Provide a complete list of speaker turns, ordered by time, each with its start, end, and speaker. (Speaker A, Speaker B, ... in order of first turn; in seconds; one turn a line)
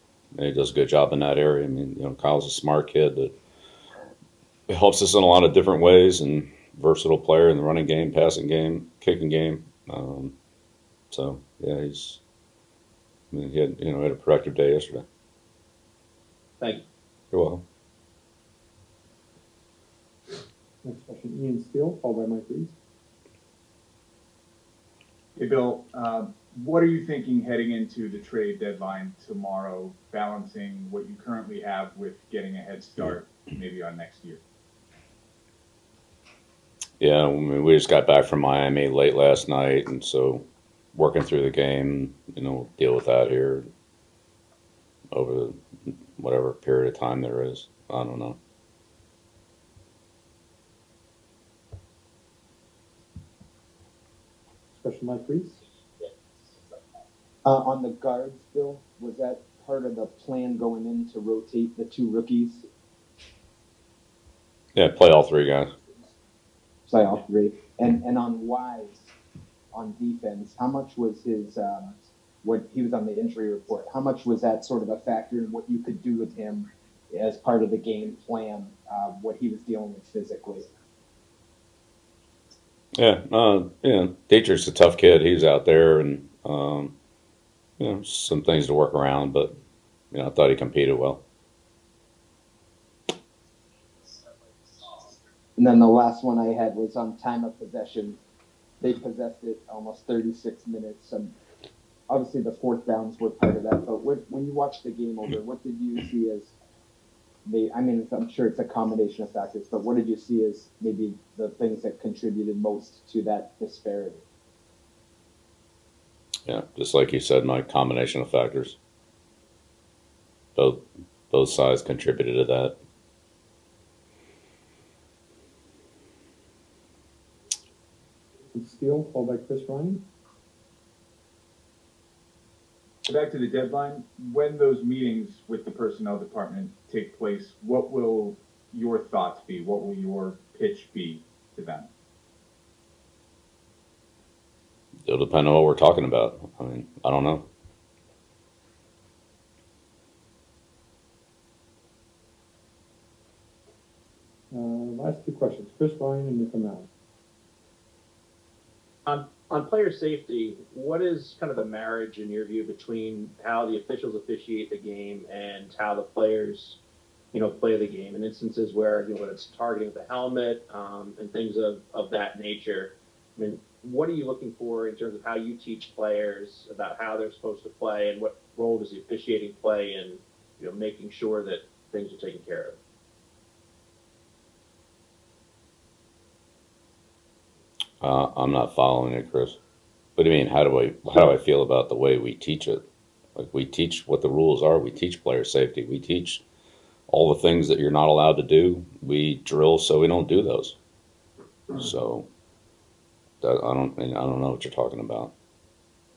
Speaker A: 0.3-3.3
Speaker A: 4.7-10.3
Speaker A: 11.1-12.2
Speaker A: 13.3-15.1
Speaker B: 16.6-16.9
Speaker A: 17.3-17.6
Speaker C: 20.8-22.8
Speaker D: 25.4-34.4
Speaker A: 37.0-43.7
Speaker A: 45.1-48.4
Speaker C: 54.7-55.6
Speaker E: 57.4-62.7
Speaker A: 64.8-65.7
Speaker E: 66.9-69.1
Speaker E: 69.7-80.7
Speaker A: 83.0-87.0
Speaker A: 87.8-89.5
Speaker A: 90.1-91.2
Speaker E: 95.6-98.2
Speaker E: 98.8-101.3
Speaker E: 102.1-106.6
Speaker E: 107.5-114.2
Speaker A: 116.5-118.8
Speaker A: 120.6-122.8
Speaker C: 128.5-130.0
Speaker D: 133.1-141.9
Speaker A: 145.1-147.4
Speaker C: 154.5-156.9
Speaker B: 159.1-166.8
Speaker B: 167.3-182.8
Speaker A: 188.0-189.6
Speaker A: 190.2-192.8
Speaker A: 193.4-196.4
Speaker A: 197.1-200.8
Speaker A: 201.7-202.3
Speaker A: 203.4-205.3